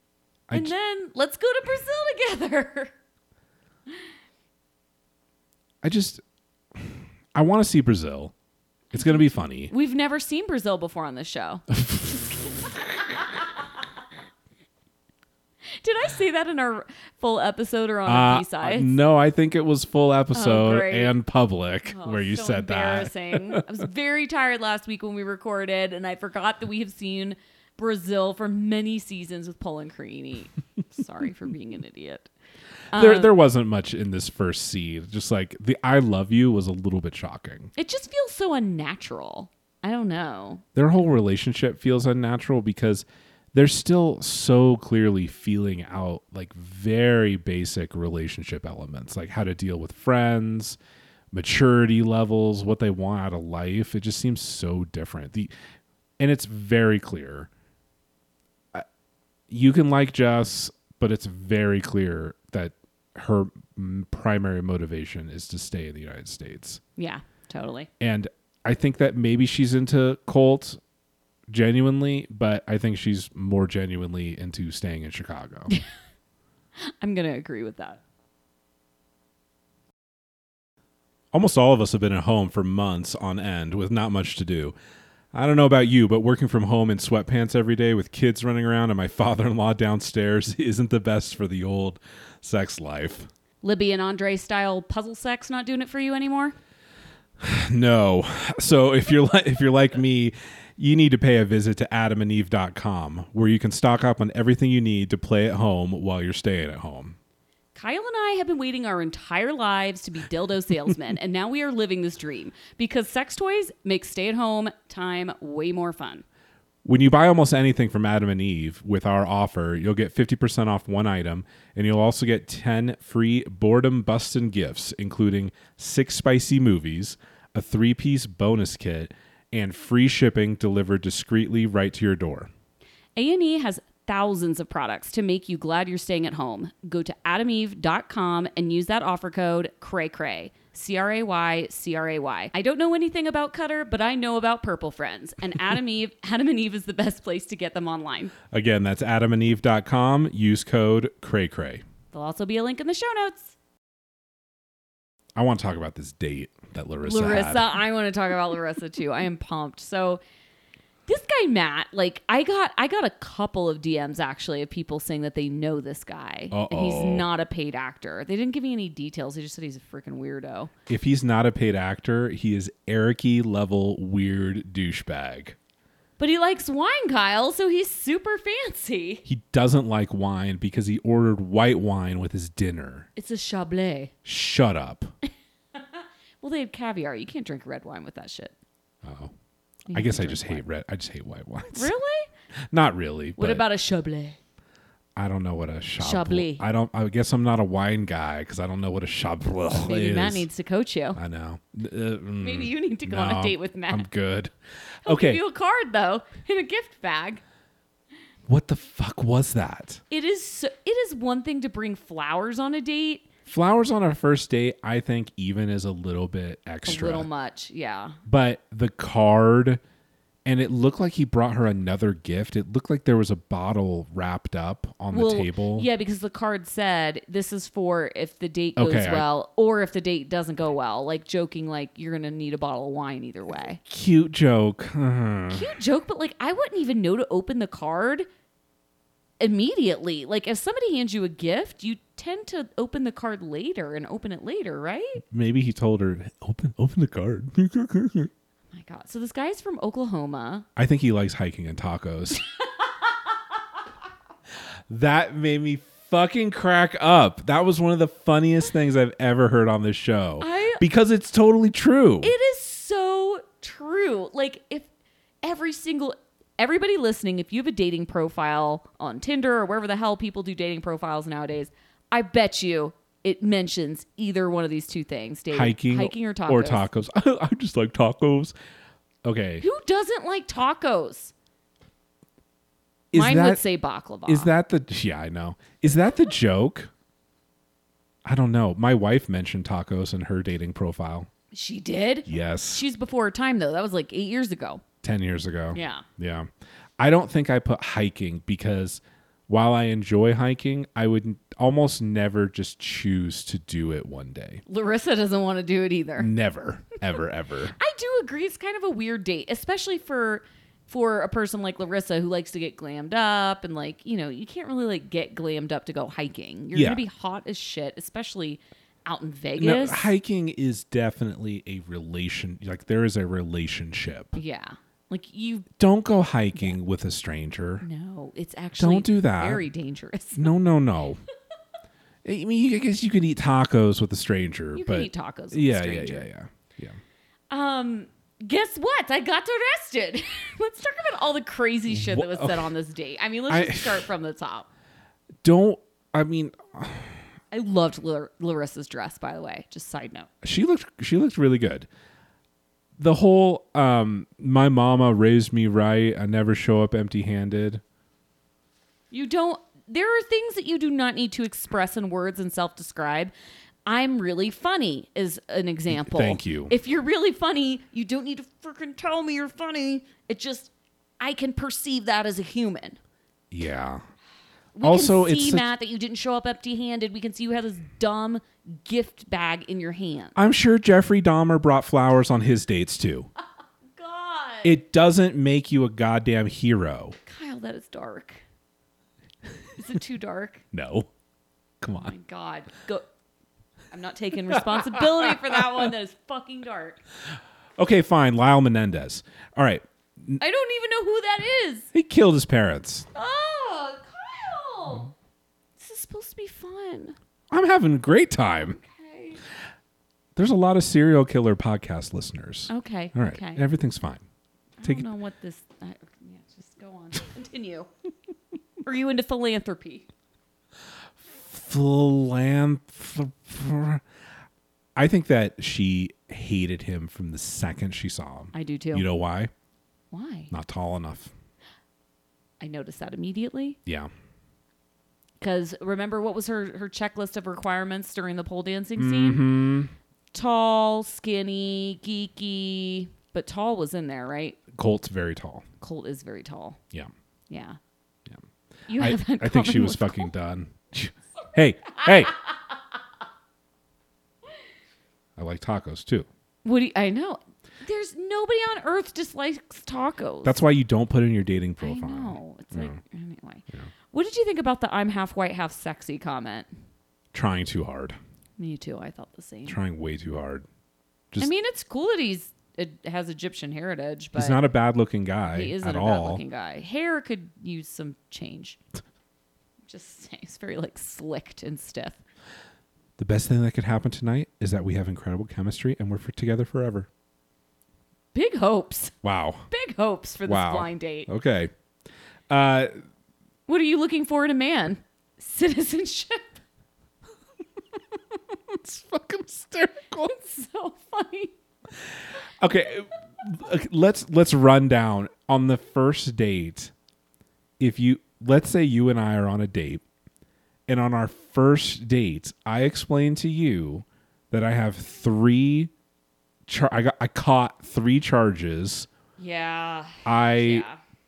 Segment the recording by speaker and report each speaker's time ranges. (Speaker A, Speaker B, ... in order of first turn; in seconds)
Speaker A: 0.5-2.9, 8.9-11.7, 15.8-18.9, 20.3-21.1, 21.9-32.3, 32.9-33.4, 37.7-40.6, 67.0-67.9, 76.8-78.0, 93.6-96.5, 107.7-116.2, 133.2-148.3, 152.1-153.5, 157.0-160.2, 161.1-170.7, 176.2-179.2, 183.2-184.1, 185.7-188.5, 189.9-190.6, 191.7-192.3, 193.4-194.4, 196.0-196.6, 199.7-201.2, 202.4-204.1, 205.1-207.4, 210.1-213.2, 216.8-218.2, 225.1-233.8, 235.5-238.3, 239.4-245.2, 248.7-250.7, 260.4-260.8, 262.2-264.9, 265.4-276.9, 279.6-281.3, 283.1-284.5, 291.5-294.8, 295.7-296.0, 304.7-306.3, 307.7-320.1, 324.3-325.7, 327.8-330.5, 334.7-336.3, 337.5-344.7, 347.5-350.3, 359.1-363.3, 363.9-373.0, 374.8-380.4, 383.9-384.8, 387.2-388.4, 389.8-390.6, 392.0-393.1, 393.9-397.0, 400.4-401.9, 403.1-405.1, 405.8-407.1, 408.7-409.4, 412.7-413.6, 414.8-417.9, 418.8-420.1, 428.5-429.1, 430.1-430.5, 432.6-433.8, 435.4-439.4, 440.3-444.6, 445.8-446.8, 447.5-447.8, 448.9-450.3, 451.9-452.5, 456.6-460.6, 461.8-466.7, 468.6-469.8, 471.4-474.6, 475.5-478.8, 479.9-482.2, 488.3-489.1, 489.7-491.3, 493.7-496.6, 500.2-501.5, 519.4-521.0
Speaker B: 5.8-6.2, 6.7-8.3, 8.9-9.7, 11.7-12.8, 18.1-23.6, 32.9-37.7, 40.8-50.8, 51.3-55.5, 56.2-57.5, 59.5-66.8, 68.0-70.8, 71.5-75.7, 81.3-84.7, 85.3-93.3, 97.4-107.2, 116.8-132.5, 148.5-151.8, 155.3-157.7, 166.5-167.3, 170.9-175.6, 179.2-183.1, 184.2-185.1, 189.0-189.3, 189.9-191.9, 192.7-193.6, 195.2-200.5, 201.2-204.5, 205.0-205.4, 208.5-210.0, 213.4-217.3, 218.2-219.8, 220.4-225.9, 228.8-229.2, 233.8-235.8, 245.3-248.3, 250.8-252.4, 254.9-262.3, 275.5-278.5, 279.2-279.6, 283.1-283.6, 284.2-286.9, 288.2-291.3, 292.3-292.8, 295.0-296.5, 297.0-304.6, 306.2-307.7, 316.7-317.0, 319.6-324.3, 325.8-327.8, 328.8-329.6, 330.4-331.2, 332.2-337.0, 341.9-342.7, 343.5-344.1, 345.4-347.2, 350.4-351.9, 353.0-357.8, 365.9-366.7, 373.5-374.0, 374.8-375.7, 380.3-383.3, 384.6-387.1, 390.7-391.1, 391.8-392.1, 394.6-395.6, 397.8-400.4, 401.9-403.1, 407.5-408.8, 410.4-414.2, 421.2-424.0, 424.9-429.5, 430.5-431.3, 438.9-439.9, 444.7-445.6, 449.0-452.3, 455.4-456.3, 460.4-463.0, 467.3-468.2, 469.7-470.6, 474.3-476.4, 483.2-487.1, 489.2-489.7, 490.4-491.7, 492.5-492.9, 498.5-500.3, 502.6-506.9, 507.8-510.0, 510.9-515.9, 516.7-519.1, 520.2-520.9